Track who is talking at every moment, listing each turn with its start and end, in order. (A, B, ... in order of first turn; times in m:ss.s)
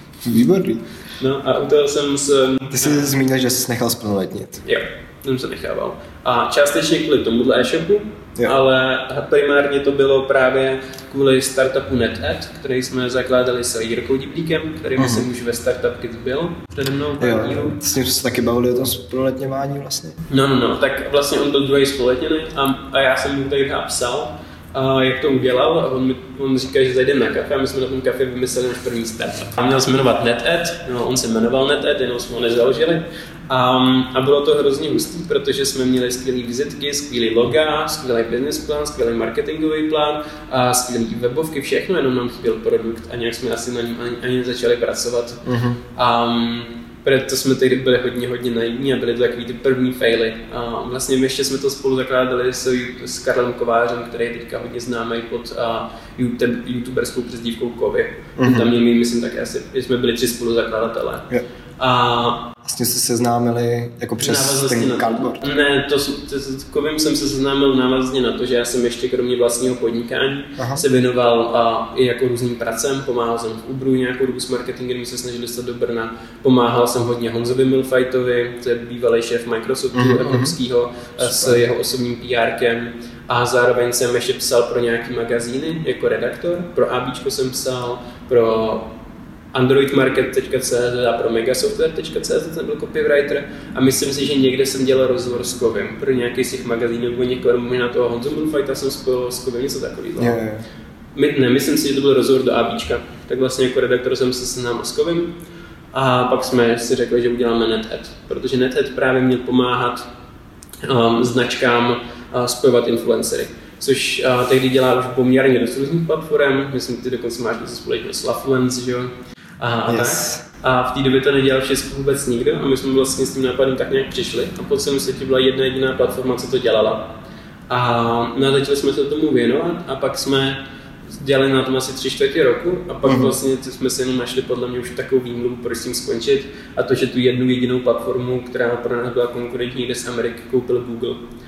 0:00.2-0:00.8 A
0:01.1-0:03.0 B
0:02.7-0:04.6 A
0:04.6-0:17.8 B
0:15.0-0:15.3 A
0:17.2-0:20.2 A
0:20.3-1:02.5 B
0:45.4-0:45.8 A
0:58.4-0:58.7 A
1:02.6-1:05.4 A
1:04.2-1:28.9 B
1:10.6-1:10.8 A
1:19.9-1:20.6 A
1:21.2-1:21.6 A
1:29.5-1:40.4 B
1:40.2-1:40.6 A
1:41.1-1:45.3 B
1:45.9-1:50.0 B
1:50.8-2:07.1 B
1:59.9-2:00.4 A
2:07.7-2:10.6 B
2:11.1-2:21.2 B
2:13.0-2:13.3 A